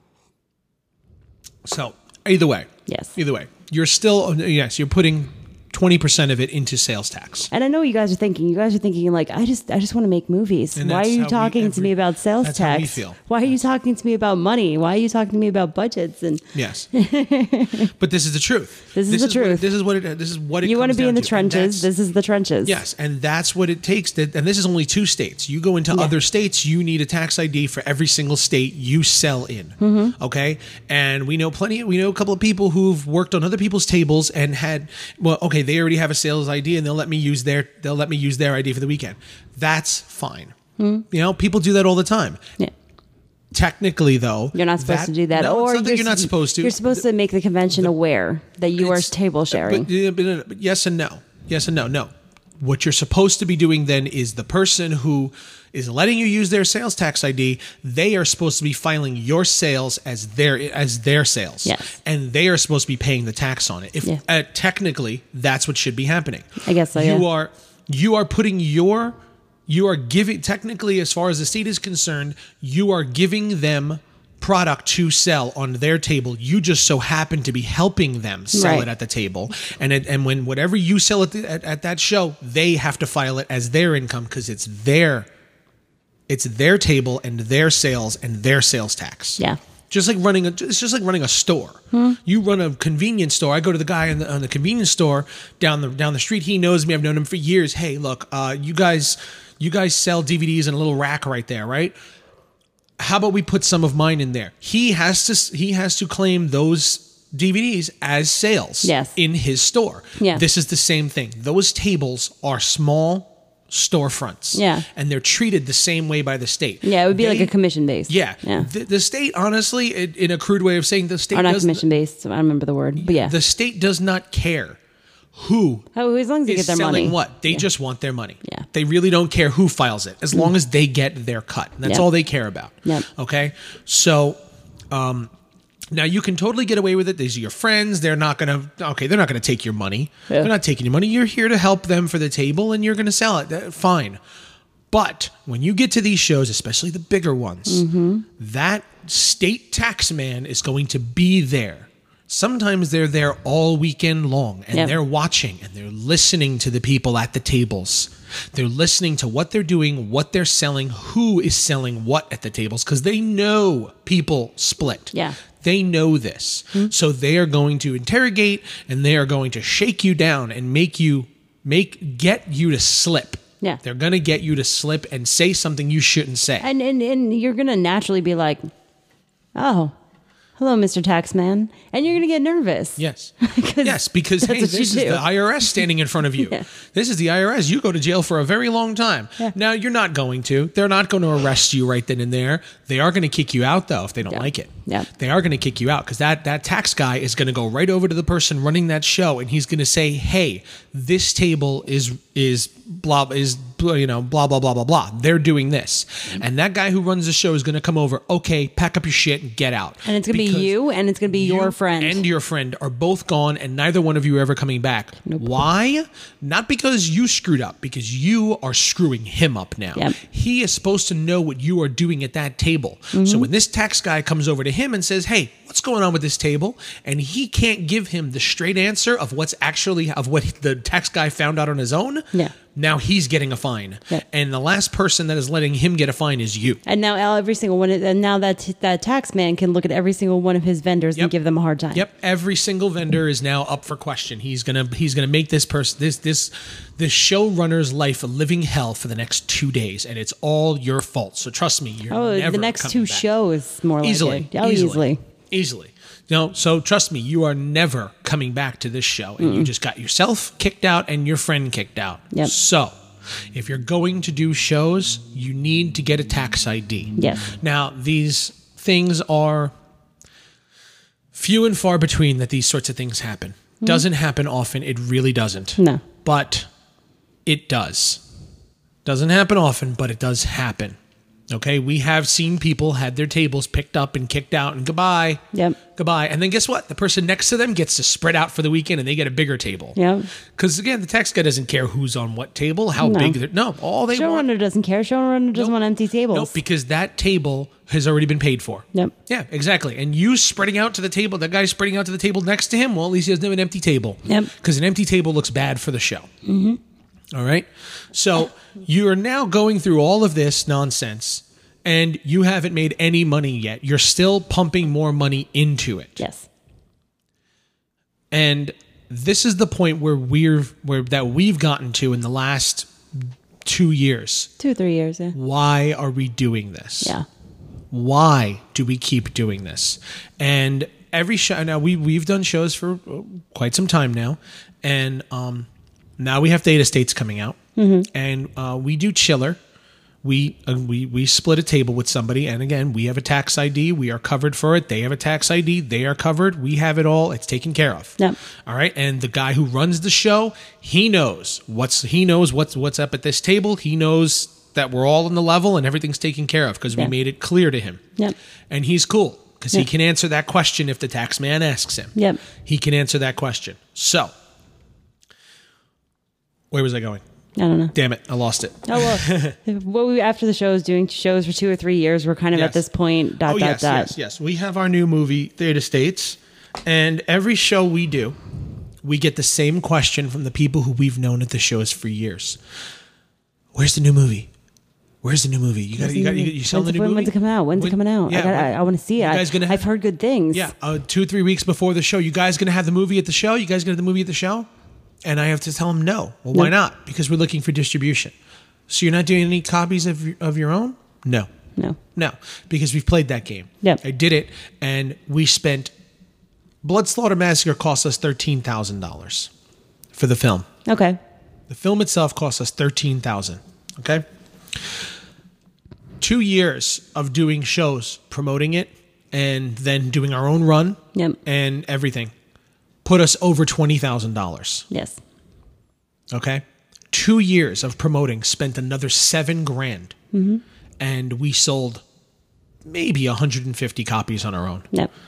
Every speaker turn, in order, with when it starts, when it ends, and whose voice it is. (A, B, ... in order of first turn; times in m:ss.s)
0:01.6-0:07.5 A
0:02.9-0:03.2 B
0:07.5-0:17.9 B
0:10.8-0:13.2 A
0:16.5-0:16.9 A
0:18.0-0:21.9 A
0:18.9-0:19.7 B
0:20.6-0:22.8 B
0:22.6-0:40.6 A
0:29.8-0:30.2 B
0:40.8-0:41.0 B
0:41.1-0:42.4 A
0:43.5-0:47.0 A
0:44.5-0:49.9 B
0:48.8-1:25.3 A
1:01.6-1:02.0 B
1:06.6-1:07.3 B
1:18.5-1:18.9 B
1:26.3-1:41.9 A
1:31.9-1:32.2 B
1:43.0-1:57.5 A
1:48.8-1:49.2 B
1:50.2-1:50.4 B
1:54.5-1:54.9 B
1:56.8-1:58.7 B
1:58.1-2:01.9 A
2:01.3-2:03.3 B
2:03.0-2:04.8 A
2:05.3-2:05.9 A
2:06.0-2:07.6 B
2:06.5-2:14.4 A
2:14.9-2:15.3 A
2:15.9-2:24.2 A
2:24.9-2:27.8 A
2:27.7-2:28.3 B
2:28.4-2:56.7 A
2:45.1-2:45.4 B
2:56.6-2:58.7 B
2:59.6-2:59.9 B
3:00.6-3:05.2 B
3:03.0-3:30.7 A
3:06.4-3:06.6 B
3:14.3-3:15.1 B
3:30.0-3:32.2 B
3:31.3-3:56.8 A
3:35.3-3:35.6 B
3:43.1-3:43.5 B
3:56.9-4:02.0 B
4:01.9-4:13.3 A
4:12.1-4:15.2 B
4:14.0-4:29.7 A
4:19.4-4:19.7 B
4:27.2-4:27.5 B
4:31.3-4:36.7 A
4:37.5-4:38.2 A
4:39.0-4:41.0 A
4:41.5-4:45.4 A
4:45.9-4:50.0 A
4:50.0-4:50.3 B
4:50.6-4:54.4 A
4:53.0-4:53.4 B
4:54.1-4:56.6 B
4:56.3-5:06.3 A
5:06.5-5:06.8 B
5:07.3-5:16.2 A
5:16.2-5:16.5 B
5:18.3-5:24.5 A
5:24.6-5:25.4 B
5:25.3-5:27.2 A
5:27.9-5:35.7 A
5:36.2-5:37.6 A
5:37.8-5:38.1 B
5:38.1-5:39.6 A
5:40.2-5:58.0 A
5:58.7-6:04.3 A
6:02.2-6:02.4 B
6:06.7-6:07.2 A
6:07.6-6:07.9 B
6:07.9-6:09.6 A
6:08.9-6:14.1 B
6:12.5-6:12.8 A
6:13.4-6:18.4 A
6:19.0-6:22.6 A
6:23.7-6:24.5 A
6:25.2-6:29.8 A
6:26.0-6:30.7 B
6:30.5-6:34.7 A
6:35.2-6:38.3 A
6:38.9-6:41.5 A
6:42.2-6:45.9 A
6:46.8-6:49.5 A
6:50.1-6:50.7 A
6:50.9-6:51.2 B
6:51.7-6:54.2 A
6:56.2-7:02.3 A
7:03.0-7:04.9 A
7:04.9-7:05.2 B
7:06.3-7:10.2 A
7:10.3-7:10.6 B
7:11.0-7:12.0 A
7:12.8-7:14.9 A